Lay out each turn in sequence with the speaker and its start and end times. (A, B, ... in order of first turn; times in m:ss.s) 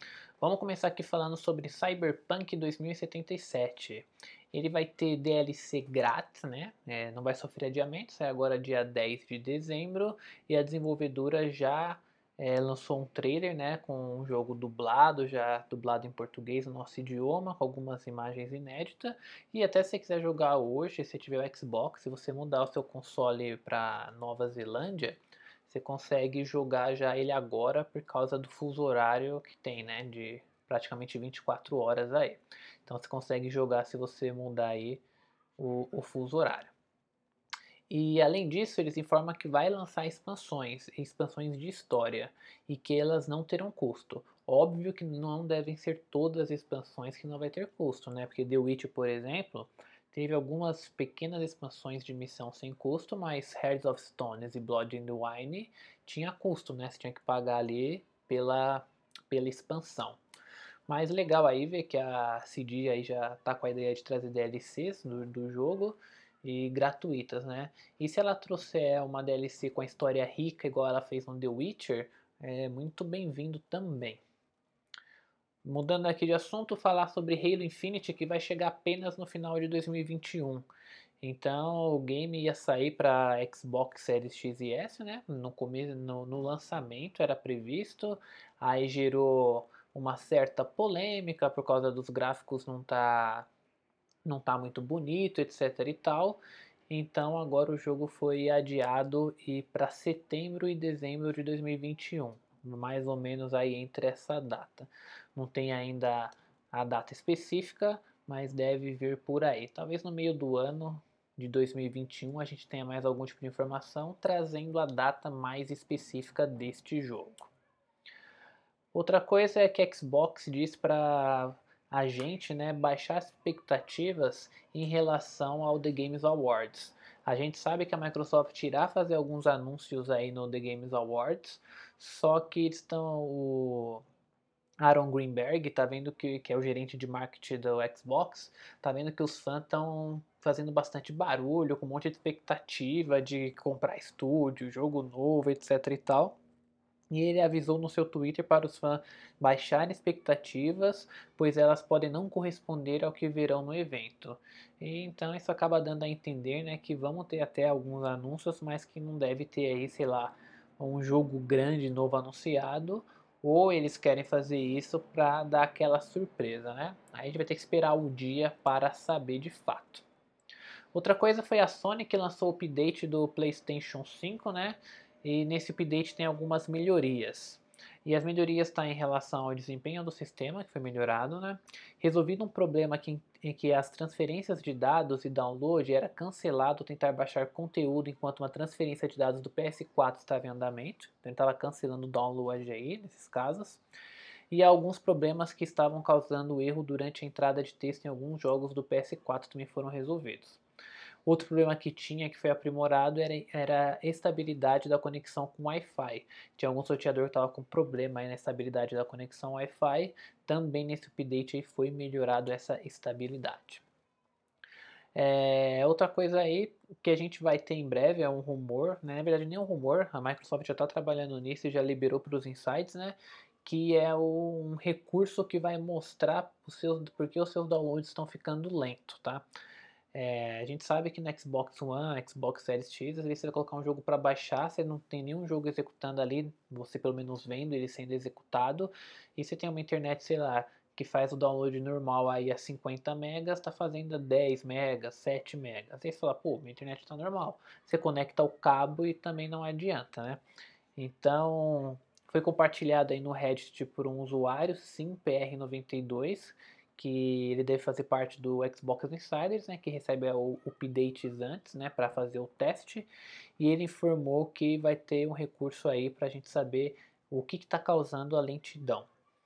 0:00.4-0:35.0 A
0:35.6-0:36.7 A
0:37.9-1:00.2 A
1:00.9-1:14.2 A
1:15.6-1:20.7 A
1:21.2-1:33.5 A
1:34.2-1:57.5 A
1:58.9-2:14.0 A
2:14.8-2:26.4 A
2:27.1-2:50.0 A
2:50.9-3:13.8 A
3:14.5-3:20.6 A
3:21.3-3:33.8 A
3:35.2-3:49.4 A
3:50.1-4:10.4 A
4:11.0-4:29.1 A